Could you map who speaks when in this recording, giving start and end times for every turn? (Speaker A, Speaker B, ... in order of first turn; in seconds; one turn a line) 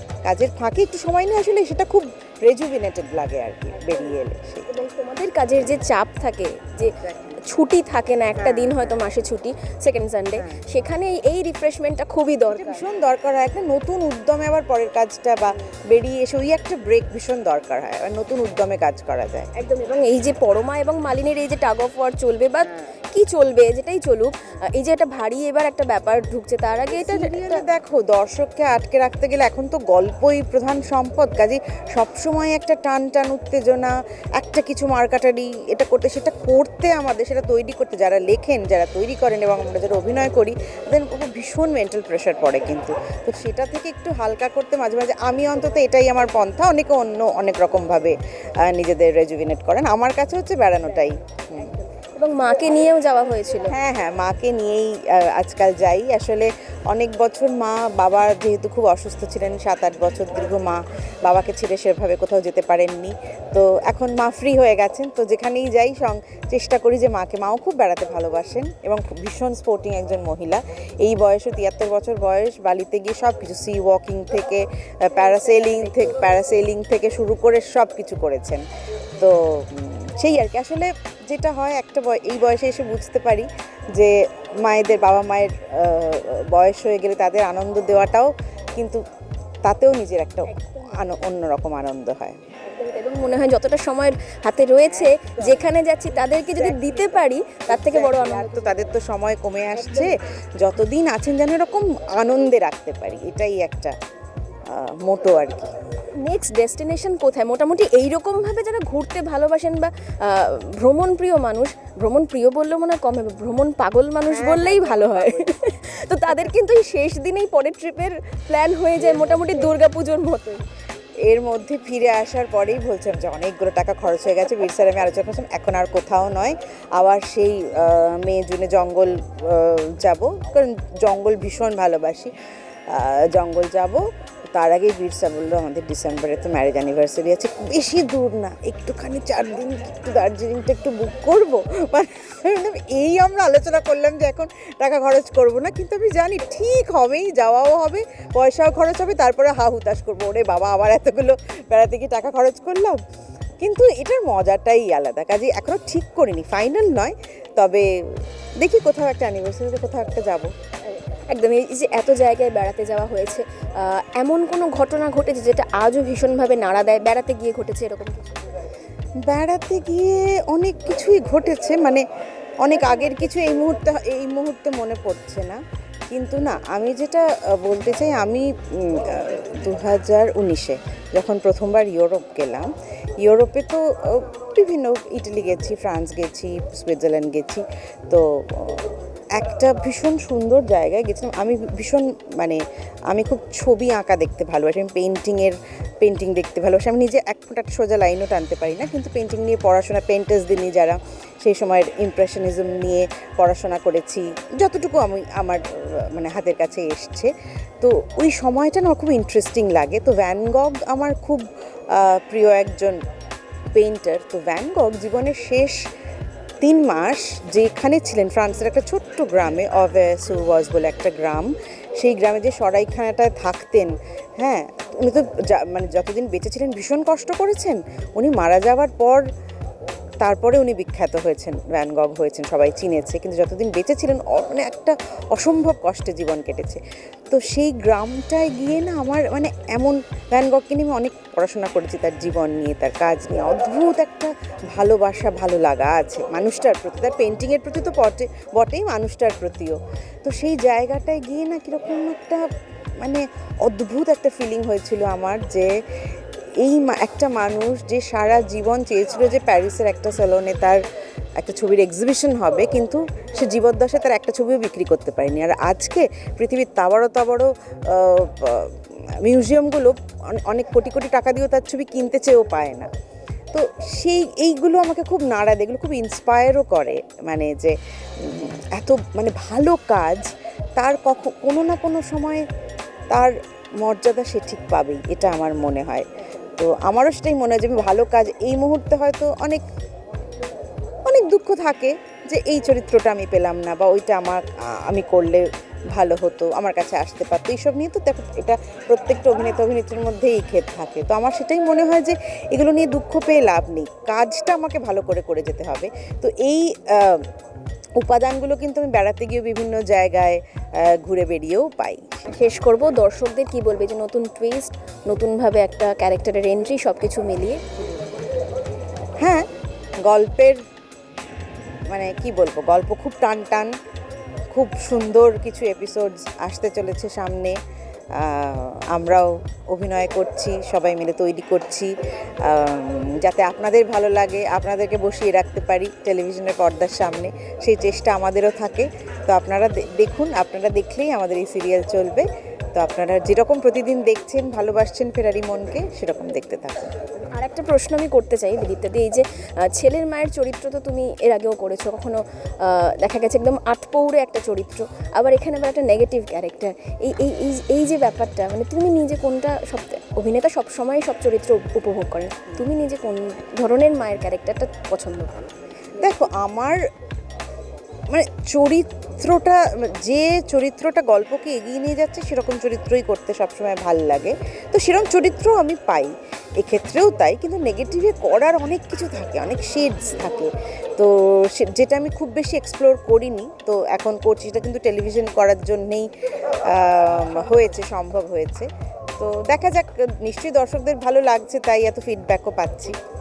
Speaker A: 0.2-4.7
Speaker B: 3.8-4.1
Speaker B: 4.7-12.8
Speaker A: 7.0-7.4
Speaker A: 8.3-9.0
Speaker A: 12.5-19.5
Speaker B: 19.5-27.6
Speaker A: 26.9-51.8
Speaker B: 51.6-53.7
Speaker A: 53.7-78.6
Speaker B: 75.1-76.3
Speaker A: 79.2-89.0
Speaker A: 89.6-92.4
Speaker B: 90.5-91.1
Speaker B: 92.7-99.0
Speaker A: 94.8-103.9
Speaker B: 99.8-100.1
Speaker A: 104.7-105.7
Speaker B: 106.2-120.6
Speaker A: 114.3-116.6
Speaker A: 119.0-119.7
Speaker A: 121.2-132.3
Speaker A: 132.9-134.0
Speaker A: 134.5-153.0
Speaker A: 153.6-160.5
Speaker B: 160.9-168.4
Speaker A: 169.2-172.0
Speaker A: 172.6-182.7
Speaker A: 183.2-192.6
Speaker A: 193.1-213.0
Speaker A: 213.8-215.8
Speaker A: 216.6-229.2
Speaker A: 230.2-252.4
Speaker A: 253.0-255.7
Speaker A: 256.6-260.8
Speaker A: 261.4-272.9
Speaker A: 273.5-282.4
Speaker A: 283.1-289.6
Speaker A: 291.1-307.2
Speaker A: 308.0-312.2
Speaker B: 312.3-317.6
Speaker A: 319.2-319.5
Speaker A: 320.0-320.6
Speaker A: 321.9-323.7
Speaker A: 324.5-327.6
Speaker A: 328.1-346.9
Speaker B: 347.3-365.5
Speaker A: 366.0-366.8
Speaker A: 368.1-386.1
Speaker A: 386.6-393.0